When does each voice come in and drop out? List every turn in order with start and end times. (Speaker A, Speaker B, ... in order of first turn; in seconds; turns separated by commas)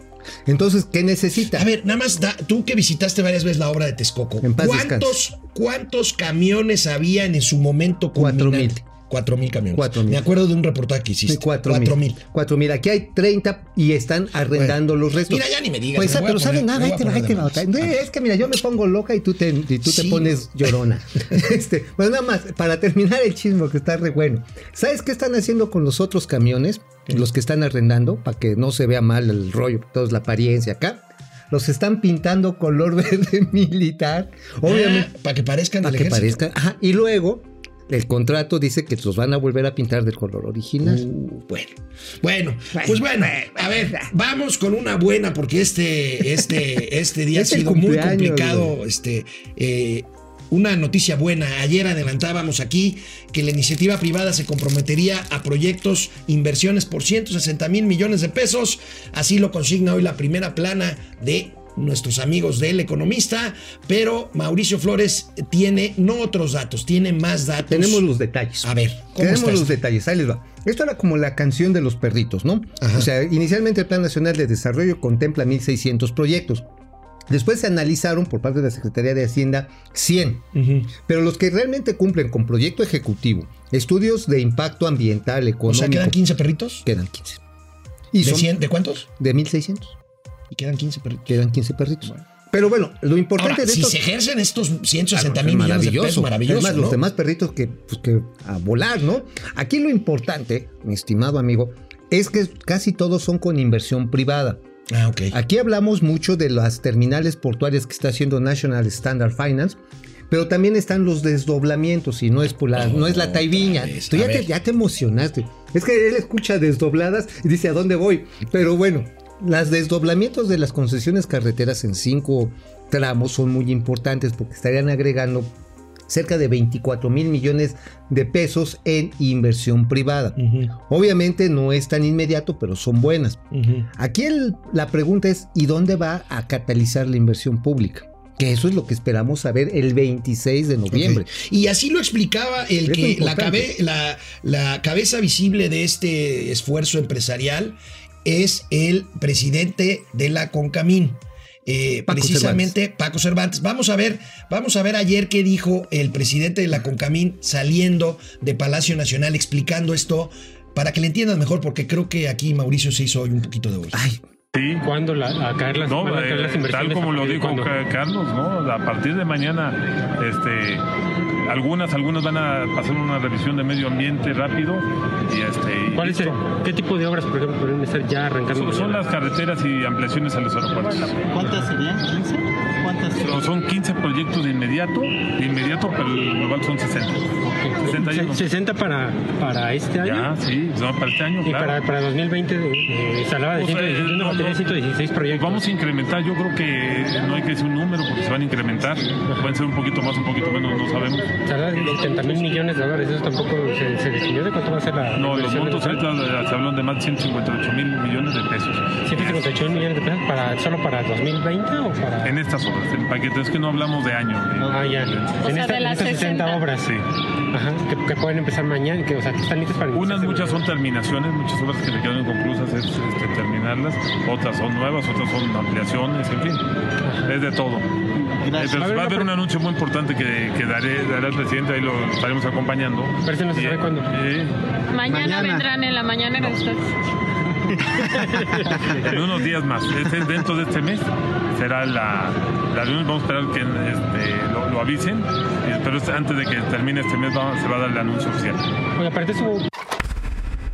Speaker A: 0.5-1.7, Speaker B: 1.5-12.2, Speaker A: 4.4-5.2, Speaker A: 8.1-8.8, Speaker A: 9.7-10.2, Speaker A: 11.3-35.1, Speaker B: 14.5-17.9, Speaker B: 19.8-20.4, Speaker B: 34.6-36.4, Speaker A: 35.8-41.0, Speaker B: 40.8-68.0, Speaker A: 42.7-44.1, Speaker A: 47.3-48.8, Speaker A: 67.7-76.7, Speaker B: 68.6-69.7, Speaker B: 72.8-73.1, Speaker A: 77.3-86.2, Speaker B: 80.5-80.9, Speaker B: 85.7-86.8, Speaker A: 86.8-87.4, Speaker A: 88.1-88.5, Speaker B: 88.2-89.0, Speaker A: 89.1-89.9, Speaker B: 90.5-91.4, Speaker A: 91.3-94.0, Speaker B: 93.4-97.0, Speaker A: 95.1-104.6, Speaker B: 104.9-105.3, Speaker A: 105.3-109.8, Speaker A: 110.3-125.5, Speaker B: 112.8-114.5, Speaker A: 126.1-133.4, Speaker B: 130.4-130.7, Speaker B: 133.5-133.9, Speaker A: 133.9-141.3, Speaker B: 140.9-164.0, Speaker A: 142.8-143.7, Speaker A: 152.1-152.7, Speaker A: 163.9-164.2, Speaker C: 164.5-164.8, Speaker D: 164.8-167.7, Speaker C: 165.8-170.8, Speaker C: 171.4-176.4, Speaker D: 175.9-179.0, Speaker C: 178.5-181.3, Speaker E: 181.3-183.3, Speaker C: 183.2-188.4, Speaker D: 187.4-190.3, Speaker C: 190.0-191.8, Speaker D: 191.4-195.6, Speaker C: 193.5-194.7, Speaker C: 195.3-202.3, Speaker D: 201.4-206.0, Speaker C: 205.2-209.8, Speaker D: 209.0-212.3, Speaker C: 212.2-215.5, Speaker D: 214.7-216.9, Speaker F: 215.4-216.6, Speaker D: 217.5-220.6, Speaker C: 219.9-226.6, Speaker D: 227.0-227.3, Speaker C: 227.2-227.8, Speaker E: 228.4-228.8, Speaker C: 228.5-234.6, Speaker D: 228.6-229.3, Speaker D: 233.2-234.1, Speaker F: 234.9-236.9, Speaker A: 235.1-235.6, Speaker D: 237.8-239.2, Speaker C: 238.8-248.6, Speaker D: 249.0-249.6